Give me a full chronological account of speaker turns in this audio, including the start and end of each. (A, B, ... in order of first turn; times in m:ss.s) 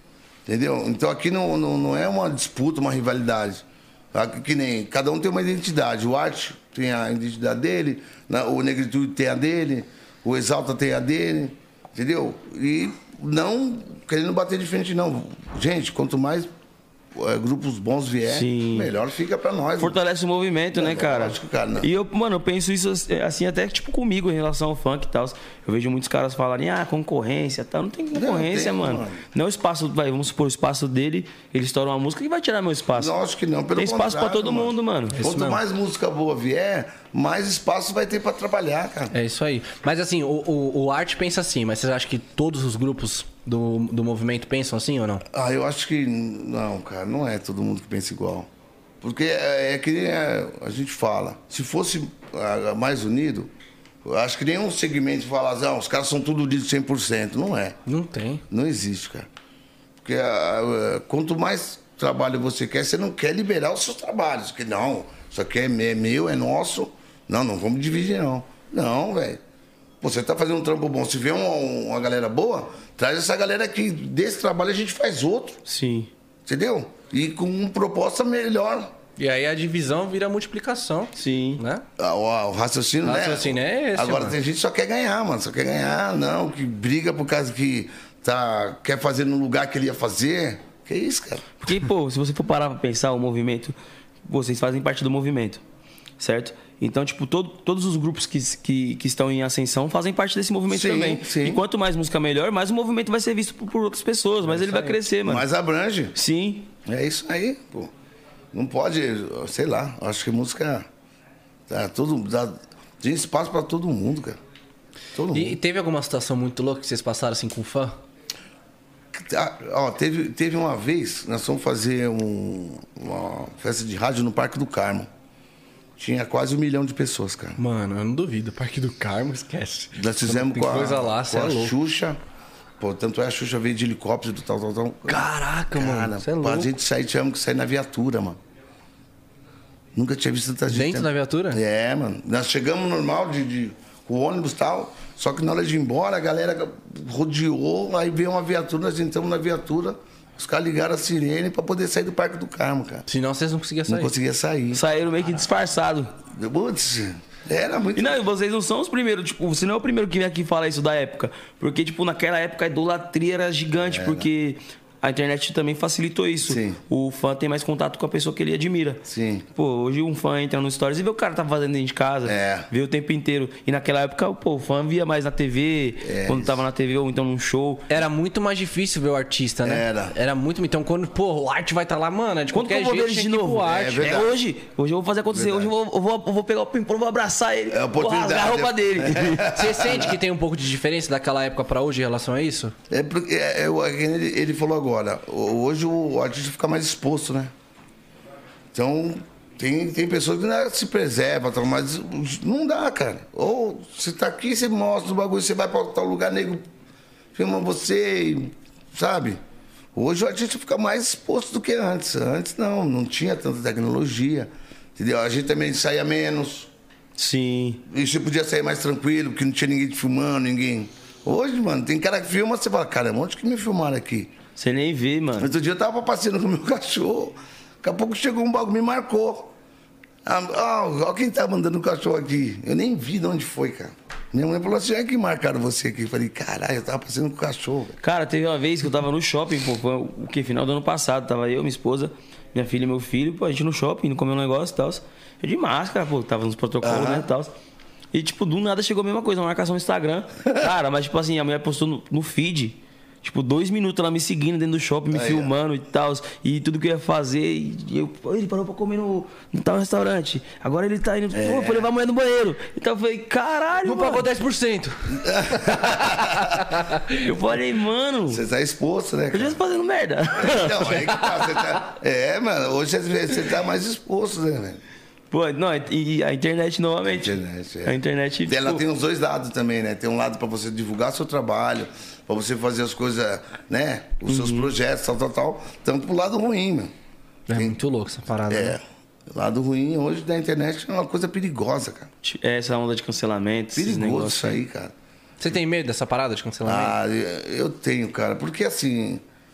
0:00.4-0:16.5 A
0:17.1-0:20.0 A
0:18.3-0:18.9 B
0:19.8-0:33.1 B
0:20.7-0:21.9 A
0:28.1-0:29.2 A
0:33.0-0:39.1 A
0:33.8-0:35.2 B
0:35.1-0:35.6 C
0:39.1-0:45.2 C
0:45.3-0:48.5 A
0:49.0-0:53.5 A
0:54.0-0:57.8 A
0:57.9-0:58.4 C
0:58.5-0:59.3 A
1:00.0-1:09.4 A
1:10.0-1:15.6 A
1:15.7-1:16.1 B
1:16.4-1:18.9 A
1:19.2-1:21.8 C
1:21.2-1:21.6 B
1:22.0-1:31.5 A
1:23.0-1:24.4 C
1:31.6-1:33.8 B
1:34.3-1:35.6 B
1:36.2-1:45.4 B
1:40.7-1:41.6 A
1:44.5-1:46.2 A
1:46.1-1:46.7 B
1:46.8-1:47.9 A
1:48.5-1:50.9 A
1:51.7-1:54.4 A
1:55.1-1:55.6 A
1:55.3-1:58.0 C
1:59.1-2:05.1 A
2:06.0-2:07.6 A
2:07.6-2:11.8 C
2:10.0-2:12.2 A
2:12.8-2:18.4 A
2:15.1-2:16.7 C
2:20.0-2:33.1 A
2:20.7-2:21.6 C
2:33.1-2:34.1 C
2:33.9-2:34.8 A
2:34.7-2:36.1 B
2:36.3-2:38.2 A
2:38.0-2:57.9 B
2:43.8-2:44.3 A
2:46.4-2:46.8 A
2:49.0-2:49.4 A
2:52.2-2:52.7 A
2:56.0-2:56.6 A
2:57.9-3:04.2 C
2:59.6-3:00.1 A
3:02.5-3:09.6 B
3:03.6-3:04.3 A
3:05.3-3:05.7 A
3:07.7-3:10.2 A
3:09.4-3:12.8 C
3:12.9-3:17.5 A
3:18.7-3:26.6 A
3:27.4-3:29.4 A
3:30.0-3:36.7 A
3:37.2-3:37.8 B
3:37.9-3:44.3 A
3:44.6-3:45.5 B
3:45.4-3:49.5 A
3:50.2-3:58.0 A
3:58.0-4:07.5 B
4:06.8-4:07.3 A
4:08.1-4:24.3 B
4:15.1-4:15.5 A
4:21.3-4:21.9 A
4:23.8-4:27.1 C
4:25.1-4:26.7 A
4:27.1-4:28.4 B
4:28.3-4:29.6 A
4:29.3-4:31.2 B
4:30.4-4:34.8 A
4:35.3-4:38.8 B
4:37.1-4:46.9 A
4:44.3-4:44.7 B
4:47.5-4:48.8 C
4:47.5-4:47.8 A
4:48.5-4:52.1 A
4:52.2-4:54.6 B
4:53.8-4:54.9 A
4:55.4-4:57.0 C
4:56.6-4:59.2 A